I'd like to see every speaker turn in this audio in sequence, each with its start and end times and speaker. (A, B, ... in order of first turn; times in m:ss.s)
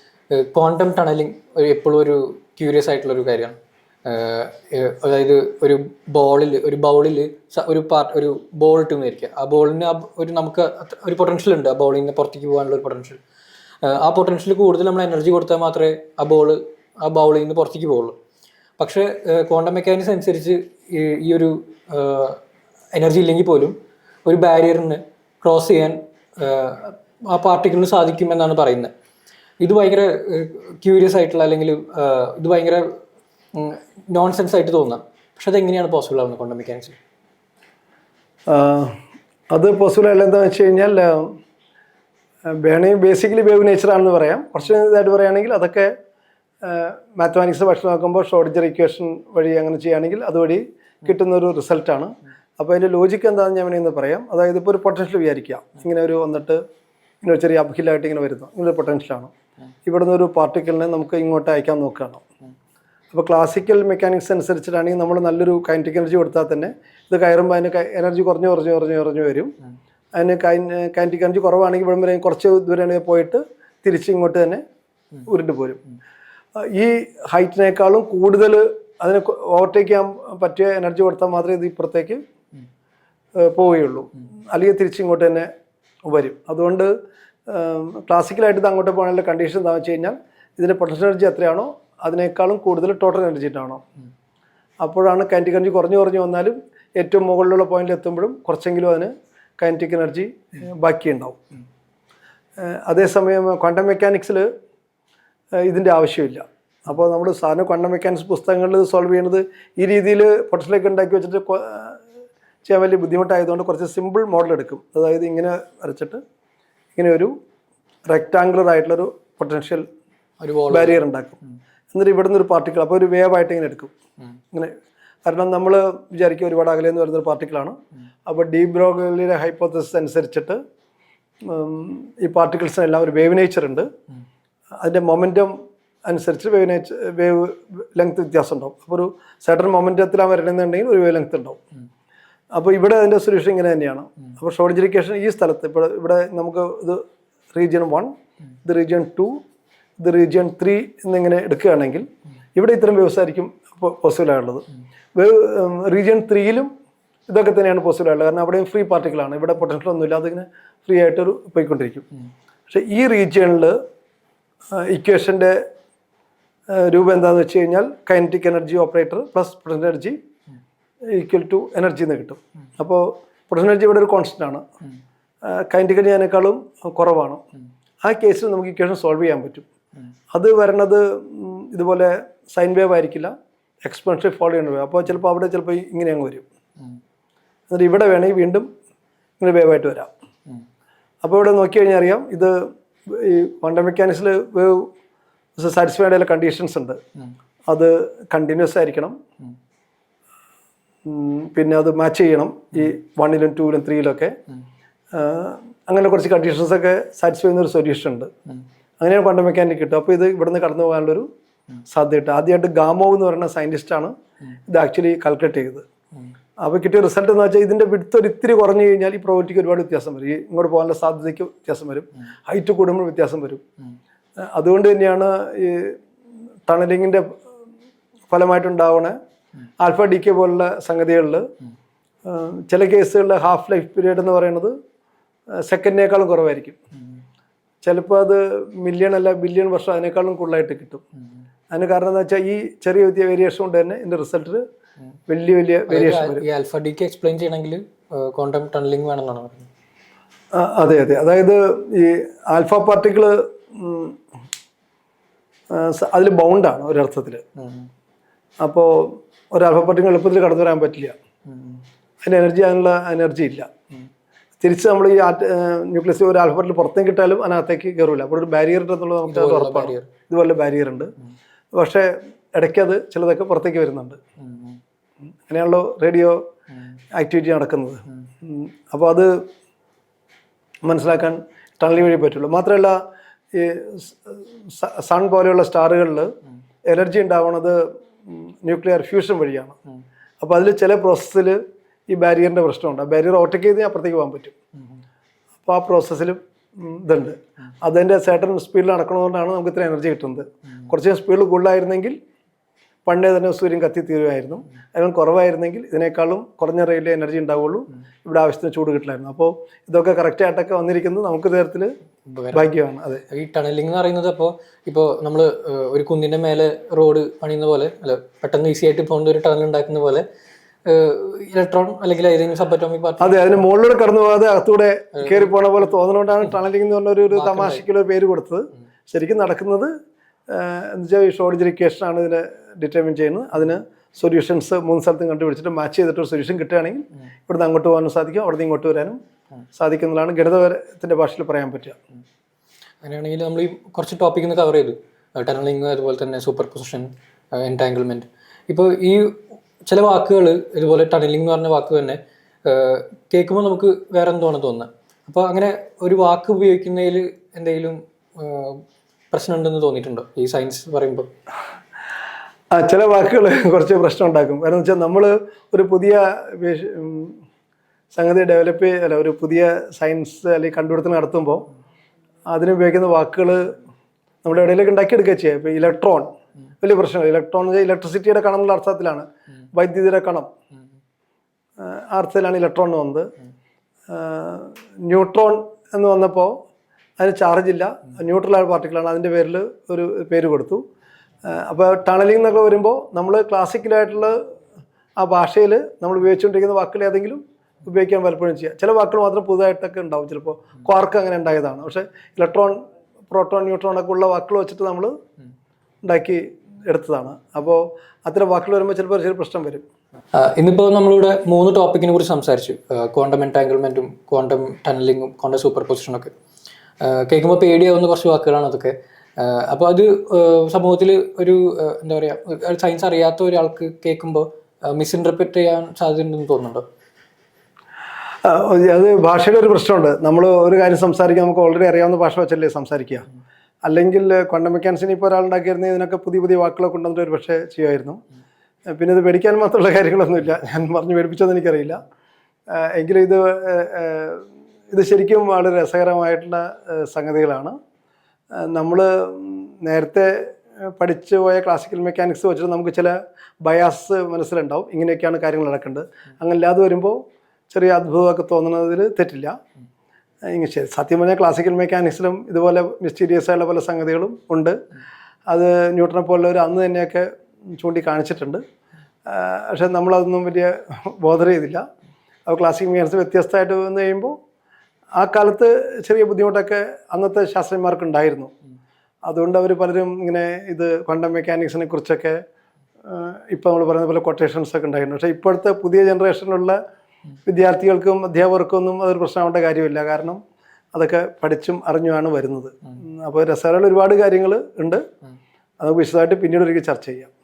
0:00.3-0:13.2 A
0:13.8-0:18.2 A
0:18.8-0:22.4 A
0:22.9-0:23.7 A
0:24.2-0:28.9 A
0:29.6-0:32.8 A
0:33.5-0:37.0 A
0:38.5-0:38.9 B
0:39.5-0:41.3 B
0:42.6-0:45.9 B
0:46.6-0:56.6 B
0:57.2-0:59.3 B
0:59.8-1:02.2 B
1:03.1-1:09.5 B
1:10.2-1:14.6 B
1:15.2-1:15.8 B
1:16.6-1:22.2 B
1:23.4-1:25.5 B
1:26.1-1:26.9 B
1:27.5-1:33.8 B
1:34.8-1:41.4 B
1:42.6-1:44.5 B
1:45.6-1:52.0 B
1:52.6-1:56.2 B
1:56.9-1:57.3 B
1:58.1-1:59.8 B
2:00.4-2:01.0 A
2:00.7-2:01.4 B
2:01.9-2:03.9 B
2:05.2-2:10.6 B
2:11.4-2:13.9 B
2:14.8-2:15.5 B
2:16.0-2:21.6 B
2:22.5-2:28.1 B
2:28.6-2:29.4 B
2:30.0-2:34.6 B
2:35.2-2:36.7 B
2:37.3-2:42.1 B
2:42.7-2:43.8 B
2:44.7-2:45.6 B
2:46.7-2:50.2 B
2:51.1-2:54.6 B
2:55.4-2:57.4 B
2:58.0-2:59.6 B
3:00.3-3:06.4 B
3:07.7-3:08.7 B
3:09.4-3:10.1 B
3:11.2-3:14.9 B
3:15.6-3:17.0 B
3:17.7-3:19.2 B
3:21.0-3:24.3 B
3:25.1-3:28.3 B
3:29.0-3:31.3 B
3:31.9-3:34.1 B
3:34.7-3:35.8 B
3:36.6-3:43.6 B
3:44.4-3:46.0 B
3:46.7-3:47.3 B
3:48.3-3:49.2 B
3:49.8-3:51.5 B
3:52.2-3:54.7 B
3:55.6-3:56.8 B
3:57.8-4:01.0 B
4:01.7-4:04.6 B
4:05.3-4:06.4 B
4:05.9-4:09.7 A
4:10.5-4:14.2 B
4:15.7-4:17.4 B
4:17.6-4:17.9 A
4:18.6-4:21.1 B
4:22.2-4:23.7 B
4:24.6-4:31.1 B
4:29.2-4:30.1 A
4:31.7-4:34.2 B
4:35.5-4:36.4 B
4:37.2-4:39.4 B
4:40.8-4:43.0 B
4:43.5-4:46.3 B
4:46.8-4:49.8 B
4:50.4-4:54.5 B
4:55.6-5:02.2 B
5:03.0-5:11.9 B
5:12.3-5:12.7 A
5:12.5-5:13.2 B
5:13.3-5:20.2 A
5:20.8-5:23.6 A
5:23.2-5:29.9 B
5:25.2-5:25.5 A
5:27.3-5:27.8 A
5:30.5-5:39.2 B
5:39.7-5:42.0 B
5:43.0-6:01.3 A
6:02.7-6:07.4 B
6:08.1-6:11.7 B
6:12.5-6:13.8 B
6:14.4-6:20.5 B
6:21.8-6:23.3 B
6:24.1-6:26.6 B
6:27.2-6:30.8 B
6:31.4-6:34.4 B
6:35.2-6:45.1 B
6:46.0-6:49.8 B
6:50.4-6:56.3 A
6:57.0-7:06.8 A
7:08.4-7:13.3 B
7:13.8-7:18.2 B
7:18.9-7:22.0 B
7:22.7-7:27.7 B
7:28.6-7:37.2 B
7:37.7-7:39.5 B
7:40.5-7:44.8 B
7:45.5-7:48.6 B
7:49.2-7:51.8 B
7:52.5-7:54.4 B
7:55.2-7:58.5 B
7:59.2-8:02.4 B
8:03.0-8:06.8 B
8:07.4-8:10.4 B
8:10.9-8:15.0 B
8:15.8-8:17.3 B